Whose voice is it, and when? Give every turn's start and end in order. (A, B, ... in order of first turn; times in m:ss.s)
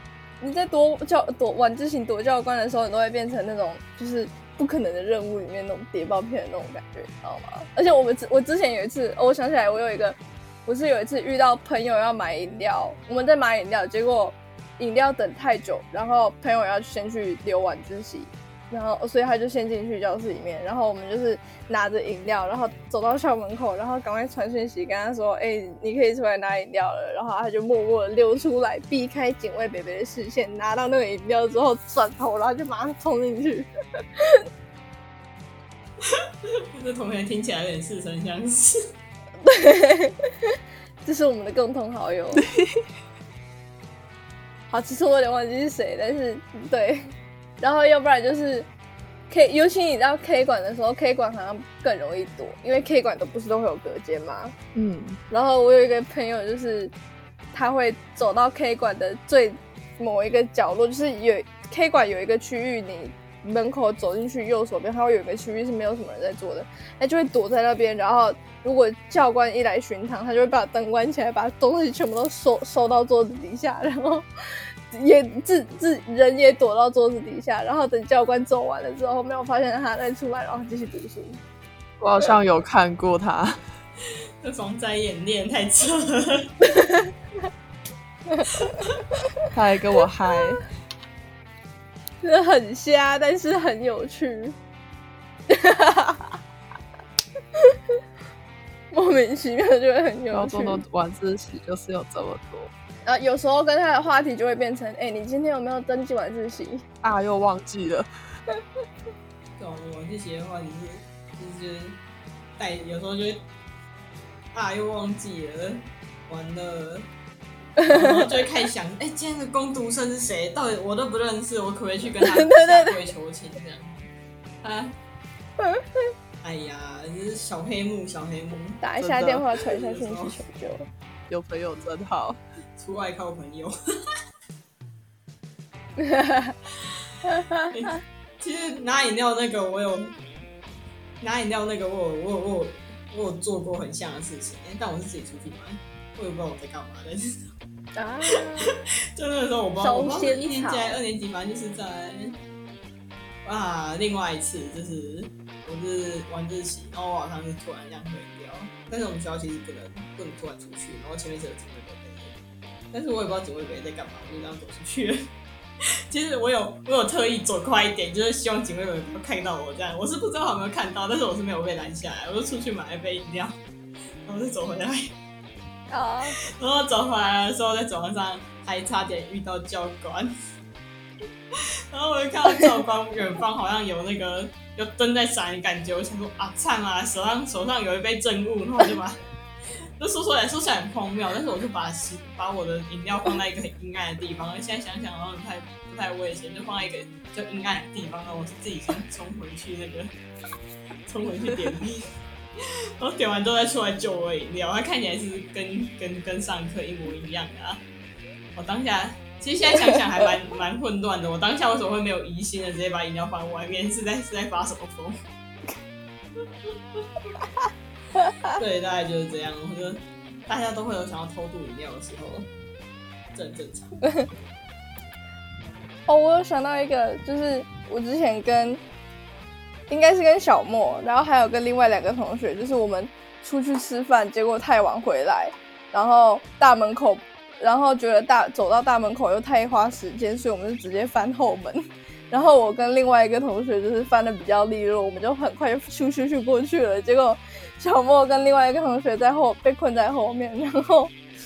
0:00.4-0:34.4 A
0:36.0-0:38.8 B
0:39.4-0:42.4 A
0:42.4-0:42.8 C
0:44.7-0:48.7 A
0:49.3-0:54.6 A
0:54.8-0:55.2 C
0:55.3-0:56.9 A
0:57.5-1:14.3 A
1:14.9-1:21.4 A
1:22.0-1:23.6 C
1:24.4-1:26.5 B
1:26.7-1:27.1 A
1:28.5-1:29.0 B
1:29.5-1:30.6 C
1:32.2-1:34.6 A
1:35.5-1:36.4 A
1:37.6-1:38.0 A
1:38.9-1:40.8 A
1:40.3-1:42.7 C
1:43.0-1:46.8 A
1:47.0-1:48.1 C
1:49.6-1:52.0 B
1:52.6-1:53.4 B
1:54.5-1:57.1 B
1:57.8-2:04.1 B
1:57.9-1:58.2 A
2:02.2-2:03.0 A
2:04.6-2:05.0 B
2:06.4-2:10.4 B
2:08.8-2:10.9 A
2:11.3-2:12.4 C
2:12.8-2:13.7 B
2:16.0-2:16.6 A
2:17.3-2:17.7 A
2:17.6-2:20.2 B
2:21.2-2:27.5 B
2:28.0-2:28.7 A
2:28.3-2:32.4 B
2:29.8-2:31.0 A
2:33.4-2:42.4 B
2:42.9-2:45.3 B
2:46.1-2:53.6 B
2:54.3-2:55.1 B
2:55.9-2:56.4 A
2:56.6-3:00.3 B
3:01.5-3:09.2 B
3:10.0-3:20.1 B
3:21.1-3:22.0 B
3:23.0-3:27.8 B
3:28.6-3:35.2 B
3:38.2-3:38.5 A
3:38.5-3:42.5 B
3:43.3-3:44.0 B
3:46.1-3:48.8 A
3:49.9-4:11.1 A